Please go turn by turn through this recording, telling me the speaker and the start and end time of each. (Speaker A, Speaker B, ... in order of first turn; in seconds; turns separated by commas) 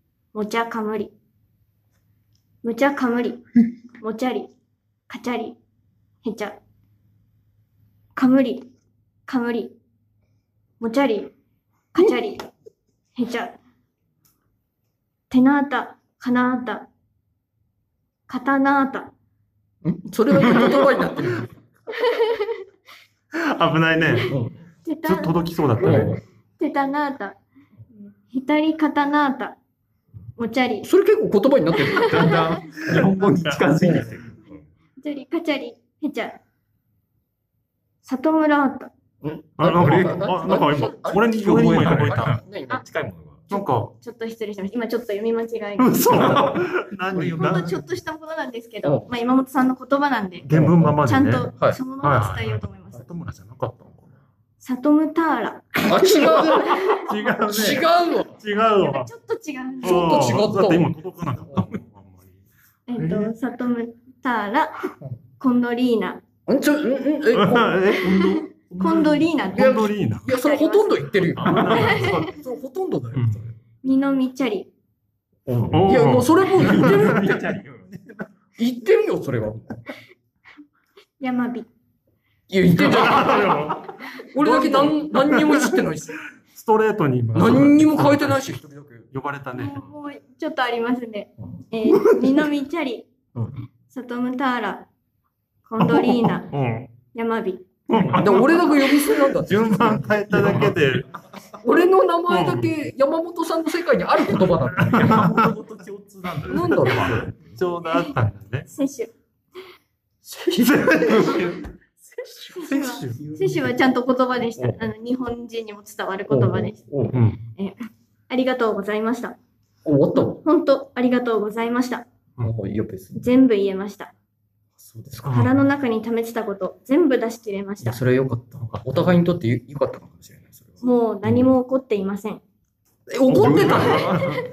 Speaker A: 0.3-1.1, Speaker A: 2.6-3.4, Speaker A: 4.0-4.5, Speaker A: 5.1-5.6, Speaker A: 6.2-6.6, Speaker A: 8.2-8.7, Speaker A: 9.3-9.8, Speaker A: 10.8-11.3, Speaker A: 11.9-12.5, Speaker A: 13.2-13.6, Speaker A: 15.3-16.9, Speaker A: 18.3-19.1, Speaker B: 19.8-21.5, Speaker A: 21.9-22.6, Speaker C: 23.4-24.3, Speaker B: 24.3-24.6, Speaker A: 24.9-27.4, Speaker C: 25.1-26.2, Speaker B: 25.8-26.2, Speaker A: 28.0-29.6, Speaker A: 30.4-30.9, Speaker B: 30.8-32.4, Speaker A: 31.8-32.6, Speaker D: 32.0-34.6, Speaker C: 32.9-34.1, Speaker A: 35.0-36.4, Speaker A: 38.0-38.9, Speaker B: 39.2-42.8, Speaker C: 39.6-42.4, Speaker D: 39.8-40.2, Speaker D: 41.5-43.4, Speaker C: 43.5-43.9, Speaker A: 43.5-46.0, Speaker C: 45.8-47.8, Speaker D: 46.1-46.6, Speaker A: 47.4-50.5, Speaker C: 50.4-54.2, Speaker B: 50.5-51.0, Speaker A: 51.0-53.1, Speaker A: 54.6-57.1, Speaker B: 55.9-58.3, Speaker C: 55.9-59.1, Speaker A: 58.8-60.4, Speaker C: 59.8-62.4, Speaker B: 59.8-60.9, Speaker A: 62.9-66.2, Speaker C: 63.0-63.3, Speaker B: 66.5-67.8, Speaker C: 67.3-68.2, Speaker D: 68.0-69.3, Speaker A: 68.1-71.1, Speaker C: 69.5-70.3, Speaker B: 69.5-73.5, Speaker D: 71.4-71.9, Speaker C: 71.4-72.3, Speaker A: 71.7-72.3, Speaker C: 73.2-73.4, Speaker A: 73.8-74.7, Speaker B: 75.5-77.5, Speaker C: 75.7-78.2, Speaker D: 76.5-77.9, Speaker B: 78.6-79.9, Speaker A: 81.2-81.7, Speaker B: 82.5-83.7, Speaker C: 82.7-85.8, Speaker B: 84.3-86.2, Speaker C: 86.5-88.6, Speaker B: 87.3-89.1, Speaker C: 89.1-89.9, Speaker A: 89.5-93.1, Speaker C: 91.9-92.5, Speaker A: 93.9-94.9, Speaker A: 95.7-96.5, Speaker C: 95.8-96.9, Speaker A: 97.1-97.7, Speaker C: 97.9-101.1, Speaker B: 98.1-100.8, Speaker D: 100.4-100.7, Speaker B: 101.6-105.3, Speaker C: 102.3-102.7, Speaker C: 104.7-105.5, Speaker D: 104.9-107.5, Speaker B: 106.5-107.3, Speaker C: 106.9-108.7, Speaker A: 108.7-109.1, Speaker B: 110.2-112.7, Speaker C: 110.6-111.6, Speaker A: 112.5-116.8, Speaker C: 112.6-113.2, Speaker D: 113.1-113.7, Speaker B: 116.3-117.2, Speaker C: 117.1-117.4, Speaker A: 117.6-119.4, Speaker B: 119.8-120.4, Speaker A: 120.2-122.1, Speaker B: 122.4-123.2, Speaker A: 123.2-124.1, Speaker B: 124.8-125.4, Speaker C: 125.2-125.5, Speaker A: 125.2-128.0, Speaker B: 127.8-130.9, Speaker C: 128.6-129.1, Speaker A: 130.8-132.4, Speaker B: 133.1-134.2, Speaker C: 133.3-134.4, Speaker D: 133.3-134.3, Speaker A: 134.1-134.4